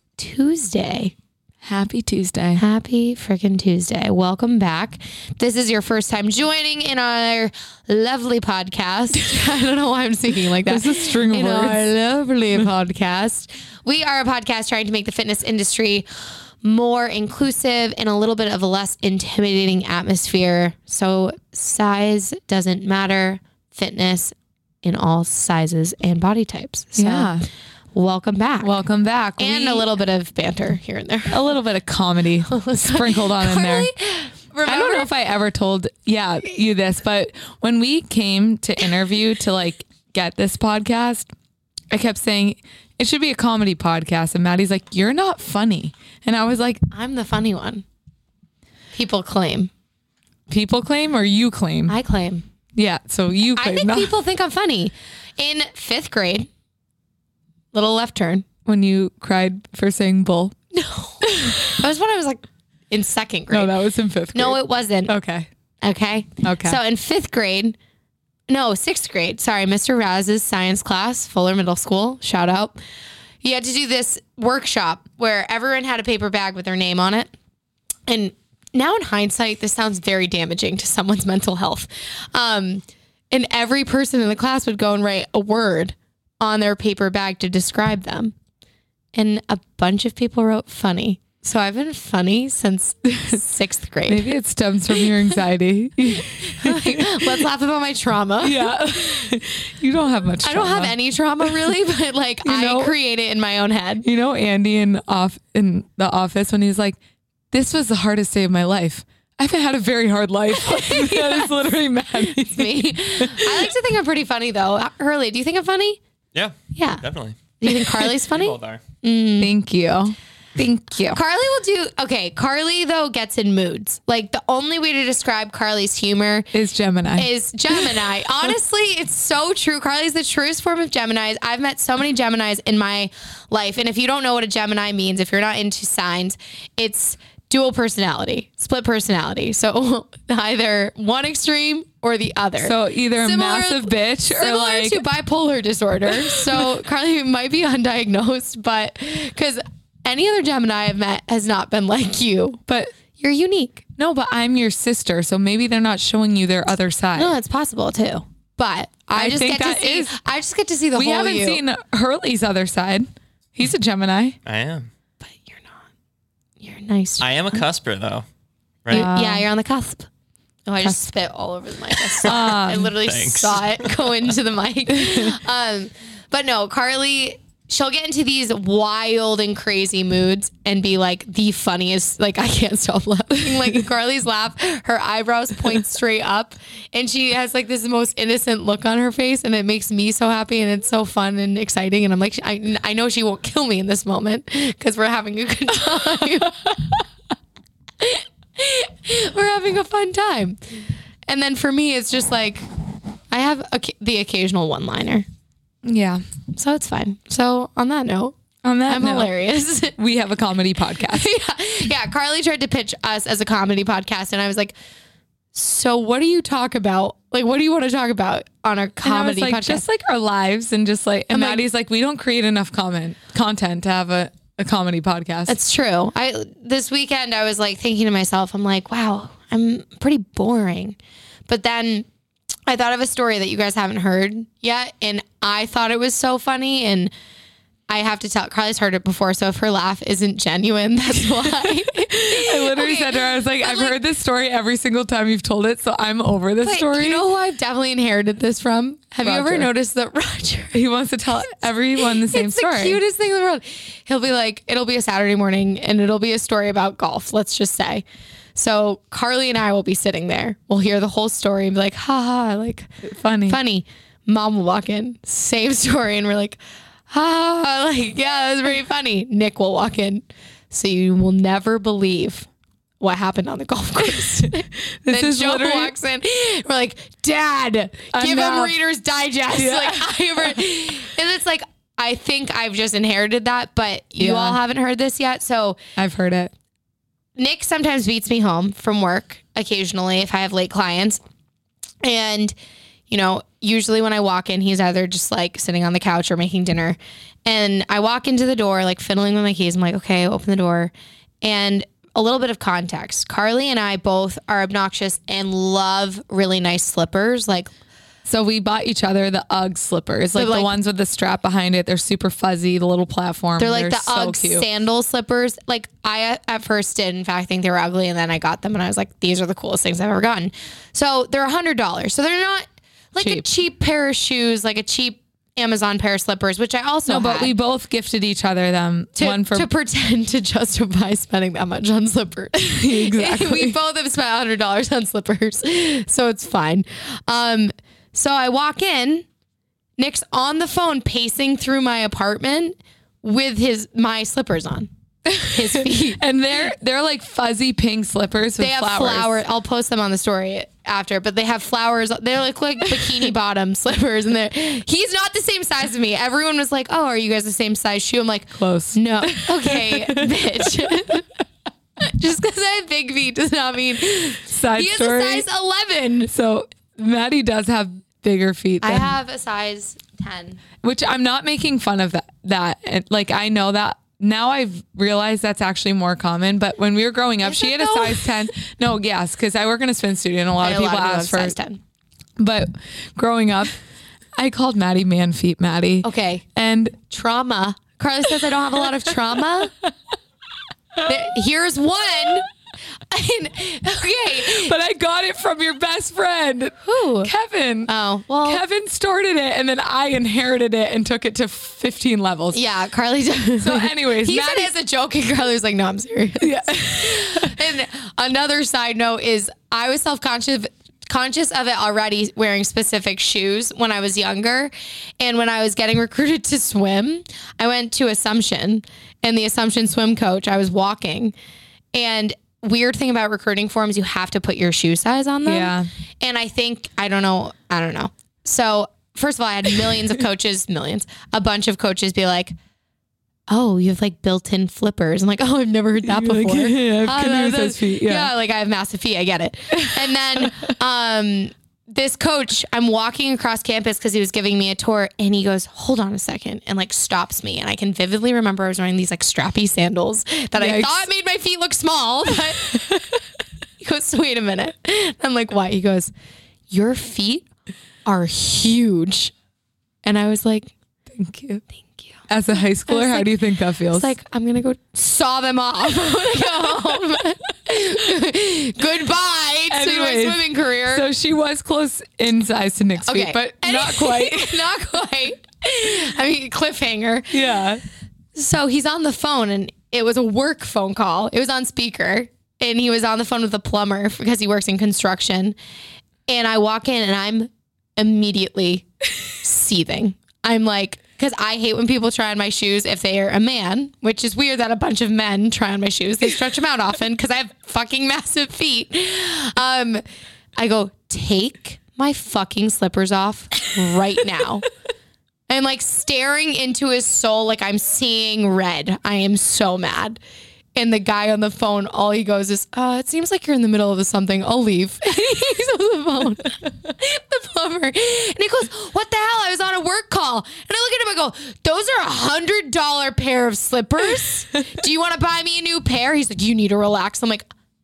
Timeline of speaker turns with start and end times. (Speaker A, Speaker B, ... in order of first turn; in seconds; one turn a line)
Speaker A: 0.2-1.1
Speaker B: 1.6-2.6
Speaker A: 2.6-16.1
Speaker B: 10.4-11.8
Speaker A: 16.6-27.4
Speaker B: 27.0-27.4
Speaker A: 27.9-28.7
Speaker B: 28.6-29.9
Speaker A: 29.4-31.4
Speaker B: 31.3-33.9
Speaker A: 32.5-35.1
Speaker B: 34.6-41.3
Speaker B: 41.9-46.9
Speaker A: 46.9-47.9
Speaker A: 48.9-49.7
Speaker B: 50.5-52.0
Speaker A: 51.9-52.5
Speaker B: 52.8-54.1
Speaker A: 53.6-56.5
Speaker A: 57.7-58.5
Speaker B: 58.7-60.5
Speaker A: 60.7-63.7
Speaker B: 61.3-61.7
Speaker B: 63.5-65.5
Speaker A: 64.3-65.1
Speaker A: 65.8-67.8
Speaker B: 66.4-66.8
Speaker A: 68.5-72.8
Speaker A: 73.4-77.3
Speaker A: 78.1-88.3
Speaker A: 89.2-94.3
Speaker B: 94.1-97.4
Speaker A: 96.2-98.8
Speaker B: 98.4-101.8
Speaker A: 100.4-104.1
Speaker B: 102.5-102.9
Speaker B: 104.0-107.0
Speaker B: 107.5-113.7
Speaker A: 110.5-111.6
Speaker A: 112.2-116.0
Speaker C: 116.3-117.4
Speaker A: 116.7-117.0
Speaker A: 117.6-119.5
Speaker C: 118.1-118.8
Speaker B: 119.4-121.2
Speaker A: 121.1-126.5
Speaker B: 126.5-127.3
Speaker A: 127.2-152.6
Speaker B: 142.6-145.1
Speaker B: 146.2-146.6
Speaker A: 153.2-153.8
Speaker B: 154.0-157.3
Speaker A: 157.2-161.6
Speaker B: 159.1-160.2
Speaker B: 160.9-164.4
Speaker C: 164.4-164.9
Speaker A: 165.2-165.8
Speaker A: 166.6-167.6
Speaker C: 167.2-168.2
Speaker C: 168.8-169.1
Speaker B: 168.9-169.5
Speaker A: 168.9-170.1
Speaker A: 170.7-196.8
Speaker B: 172.2-172.9
Speaker C: 172.2-174.2
Speaker B: 174.9-175.3
Speaker B: 195.9-196.7
Speaker A: 198.0-200.6
Speaker A: 201.3-202.7
Speaker A: 203.3-205.2
Speaker B: 205.8-206.2
Speaker A: 206.5-208.3
Speaker B: 208.6-209.3
Speaker A: 208.9-210.0
Speaker B: 210.0-211.3
Speaker A: 211.1-214.8
Speaker A: 215.5-219.8
Speaker B: 219.0-225.6
Speaker A: 221.3-221.6
Speaker A: 225.5-231.0
Speaker A: 231.5-232.1
Speaker A: 232.7-237.1
Speaker A: 237.9-244.0
Speaker B: 241.7-247.2
Speaker A: 246.6-250.8
Speaker B: 249.2-249.7
Speaker B: 250.7-253.0
Speaker A: 252.2-258.0
Speaker A: 258.6-262.9
Speaker B: 263.0-263.6
Speaker A: 263.5-266.6
Speaker A: 267.1-272.5
Speaker A: 273.0-285.8
Speaker B: 275.0-275.9
Speaker B: 278.1-278.8
Speaker B: 279.5-280.6
Speaker B: 284.2-284.6
Speaker B: 286.0-286.5
Speaker A: 287.4-291.2
Speaker A: 292.0-292.6
Speaker A: 293.1-300.9
Speaker A: 301.4-307.7
Speaker B: 308.2-314.7
Speaker A: 310.4-310.7
Speaker A: 313.6-327.5
Speaker B: 323.2-323.5
Speaker B: 327.1-329.7
Speaker A: 329.2-339.2
Speaker B: 332.8-333.8
Speaker A: 340.0-344.9
Speaker B: 345.3-349.4
Speaker A: 345.4-346.2
Speaker A: 348.6-361.3
Speaker B: 358.6-361.1
Speaker A: 362.0-366.3
Speaker B: 364.5-365.5
Speaker B: 366.3-369.1
Speaker A: 368.8-370.6
Speaker B: 370.8-381.6
Speaker A: 377.4-378.3
Speaker A: 380.6-381.8
Speaker B: 382.4-383.8
Speaker B: 384.4-387.0
Speaker A: 386.0-386.4
Speaker A: 387.1-389.7
Speaker A: 391.0-392.5
Speaker A: 393.1-394.8
Speaker B: 394.5-397.9
Speaker A: 396.9-397.3
Speaker A: 397.9-398.6
Speaker B: 398.4-402.6
Speaker A: 402.5-421.4
Speaker B: 403.6-404.7
Speaker B: 406.4-407.6
Speaker A: 421.9-432.6
Speaker B: 425.4-425.9
Speaker A: 433.5-453.0
Speaker B: 436.0-438.3
Speaker B: 439.8-440.7
Speaker B: 450.6-451.1
Speaker A: 453.8-456.1
Speaker A: 456.7-457.5
Speaker A: 458.1-459.3
Speaker A: 460.0-460.7
Speaker B: 461.1-461.6
Speaker A: 461.8-462.1
Speaker B: 462.3-464.1
Speaker A: 462.9-463.4
Speaker A: 463.9-471.1
Speaker B: 466.2-467.0
Speaker B: 469.7-474.7
Speaker A: 473.0-477.4
Speaker B: 477.3-477.8
Speaker A: 478.4-485.6
Speaker A: 486.3-500.0
Speaker A: 500.6-504.7
Speaker A: 505.5-510.2
Speaker A: 510.8-527.5